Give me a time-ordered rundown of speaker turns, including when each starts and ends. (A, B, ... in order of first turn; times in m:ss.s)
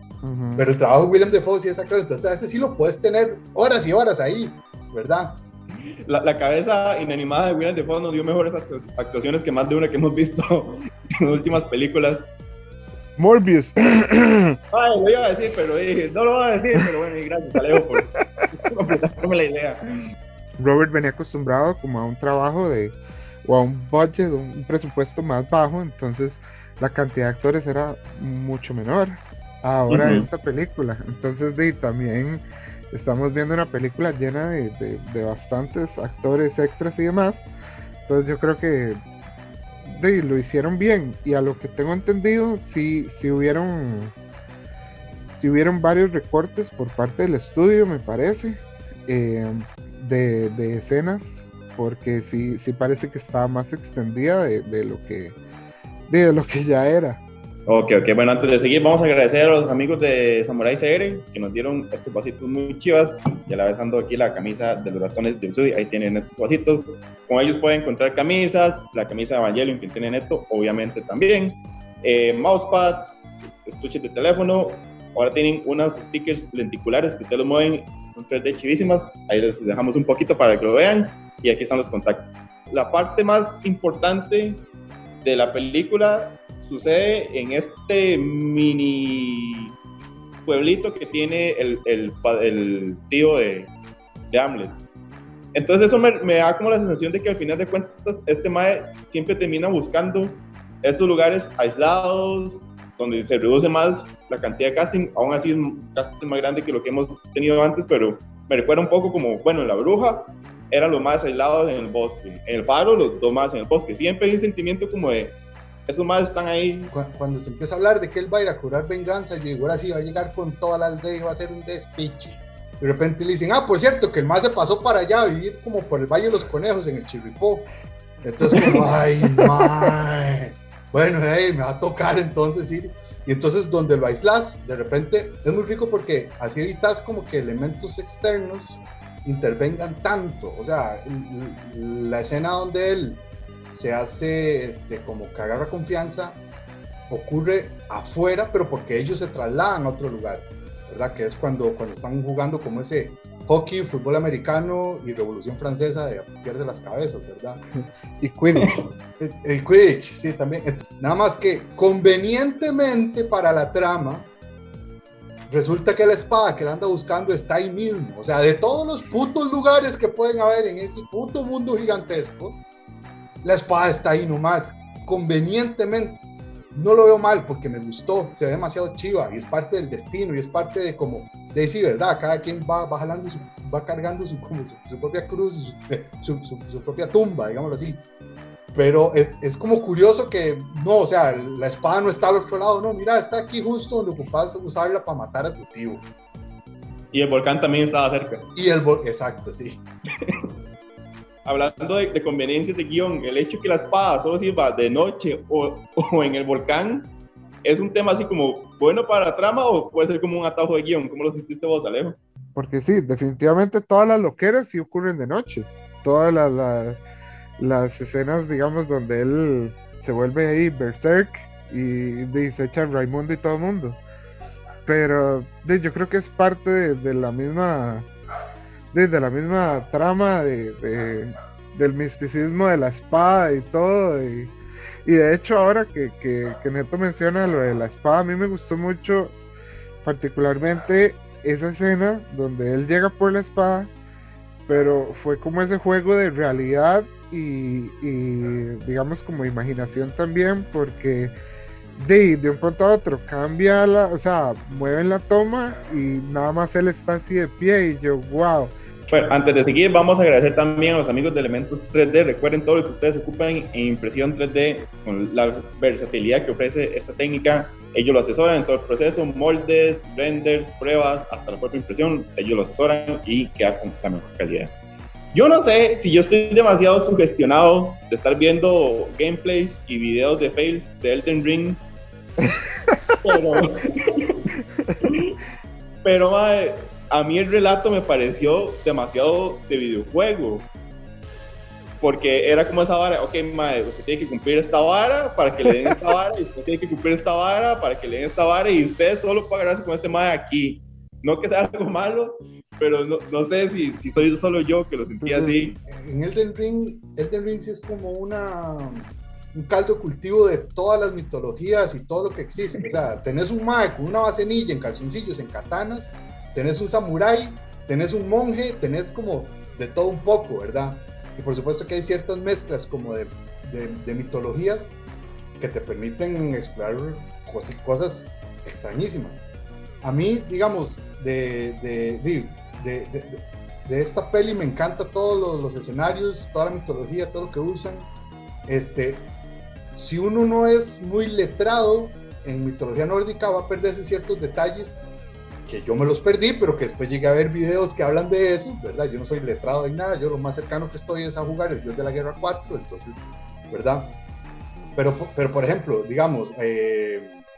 0:00.2-0:00.7 A
0:00.6-0:05.4 B
0:06.1-0:12.3 C
0:13.2-0:14.6 A
0:14.7-0:19.8 C
0:17.9-0:18.2 A
0:20.6-0:37.4 A
0:29.9-0:30.3 C
0:38.0-0:39.0 A
0:39.8-0:44.1 A
0:45.4-0:55.4 A
0:56.1-0:57.2 A
0:57.7-1:24.6 C
1:25.2-1:29.7 C
1:30.4-1:33.7 C
1:34.3-1:34.8 C
1:35.5-1:56.9 C
1:56.9-2:07.7 B
2:08.2-2:26.4 B
2:08.5-2:09.9 A
2:27.1-2:37.6 B
2:38.2-2:38.8 A
2:39.2-2:44.3 B
2:45.5-2:52.6 B
2:53.4-2:56.2 B
2:56.7-3:08.0 B
3:08.7-3:16.0 B
3:17.1-3:18.4 C
3:18.5-3:19.8 B
3:21.4-3:27.1 C
3:27.6-3:32.2 C
3:32.5-3:37.0 A
3:37.6-3:44.0 A
3:44.8-3:48.1 A
3:48.9-3:54.5 A
3:55.0-3:59.3 A
4:00.0-4:03.9 A
4:04.7-4:11.3 A
4:12.0-4:18.7 A
4:19.1-4:34.7 C
4:35.3-4:41.8 C
4:42.5-4:43.1 A
4:43.2-4:44.5 C
4:45.0-4:45.4 C
4:46.0-4:50.7 C
4:52.0-5:05.8 C
5:05.2-5:05.7 A
5:05.9-5:25.0 B
5:25.6-5:29.4 B
5:30.0-5:38.1 B
5:38.7-5:39.3 B
5:39.9-5:45.0 B
5:45.7-5:54.2 B
5:55.0-5:57.4 B